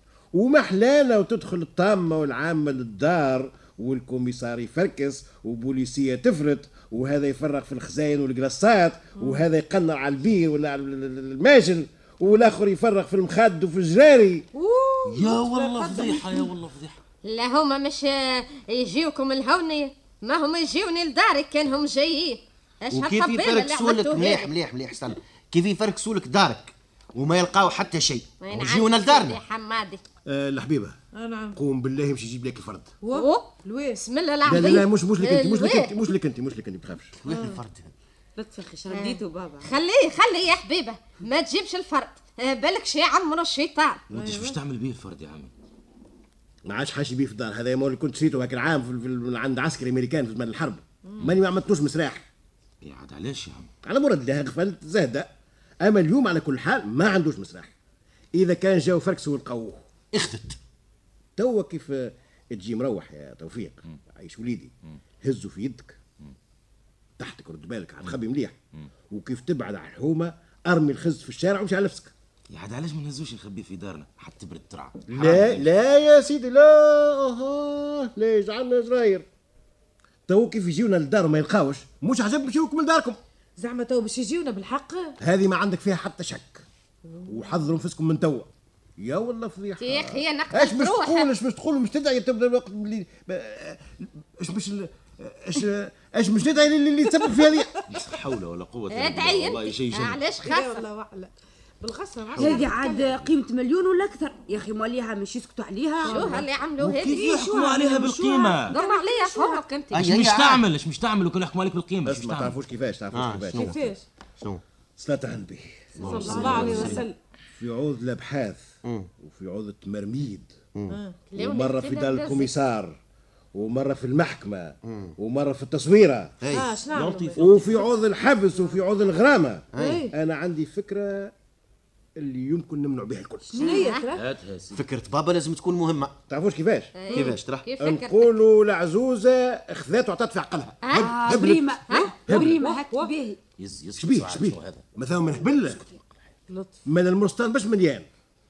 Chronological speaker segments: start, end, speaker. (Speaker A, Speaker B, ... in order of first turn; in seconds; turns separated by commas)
Speaker A: 0.3-14.4, Speaker B: 14.5-16.4, Speaker C: 15.1-17.0, Speaker D: 17.2-24.5, Speaker E: 22.9-29.4, Speaker D: 28.4-30.0, Speaker A: 30.2-31.0, Speaker B: 31.1-31.6, Speaker A: 31.5-32.9, Speaker B: 33.0-34.0, Speaker D: 33.1-35.9, Speaker A: 34.4-37.1, Speaker E: 37.2-37.9, Speaker B: 37.3-37.6, Speaker B: 38.4-39.7, Speaker D: 38.9-44.0, Speaker B: 44.1-44.6, Speaker C: 44.1-45.5, Speaker A: 46.6-52.2, Speaker C: 52.8-53.7, Speaker A: 53.8-55.3, Speaker A: 55.8-57.7, Speaker A: 58.3-59.8, Speaker E: 60.1-60.6, Speaker A: 61.4-66.0, Speaker A: 67.2-68.6, Speaker A: 69.1-72.1, Speaker C: 72.5-75.7, Speaker A: 75.1-79.2, Speaker A: 80.3-83.2, Speaker B: 83.6-85.2, Speaker A: 85.2-86.6, Speaker B: 87.1-87.5, Speaker A: 87.2-97.7, Speaker D: 89.8-91.3, Speaker C: 97.9-100.2, Speaker D: 98.9-100.8, Speaker B: 100.4-103.1, Speaker F: 102.3-106.4, Speaker D: 106.0-107.4, Speaker B: 106.0-106.5, Speaker C: 106.8-108.8, Speaker B: 107.0-109.6, Speaker D: 108.7-110.1, Speaker E: 109.9-110.6, Speaker C: 109.9-112.6, Speaker A: 112.0-113.9, Speaker E: 113.1-113.8, Speaker B: 113.5-114.0, Speaker A: 115.0-120.5, Speaker E: 116.0-117.0, Speaker C: 116.0-117.0, Speaker B: 116.0-117.2, Speaker E: 118.8-119.1, Speaker B: 120.9-121.2, Speaker D: 121.3-122.5, Speaker A: 121.4-123.0, Speaker A: 123.5-126.4, Speaker E: 124.9-125.1, Speaker E: 126.4-126.8, Speaker B: 126.5-128.8, Speaker C: 126.9-127.6, Speaker A: 127.3-131.3, Speaker E: 129.7-130.0, Speaker B: 129.8-130.1, Speaker A: 132.2-133.7, Speaker B: 133.5-134.2, Speaker F: 133.6-133.9, Speaker D: 133.7-134.0, Speaker C: 134.1-134.8, Speaker E: 134.7-136.2, Speaker A: 136.3-137.0, Speaker D: 136.9-138.3, Speaker E: 137.1-137.7, Speaker B: 137.1-137.3, Speaker A: 137.8-141.7, Speaker D: 140.8-141.3, Speaker F: 140.9-143.4, Speaker D: 141.9-142.2, Speaker B: 141.9-143.1, Speaker A: 142.3-142.5, Speaker C: 143.6-144.8, Speaker A: 144.0-145.8, Speaker B: 146.5-146.8, Speaker A: 146.8-148.1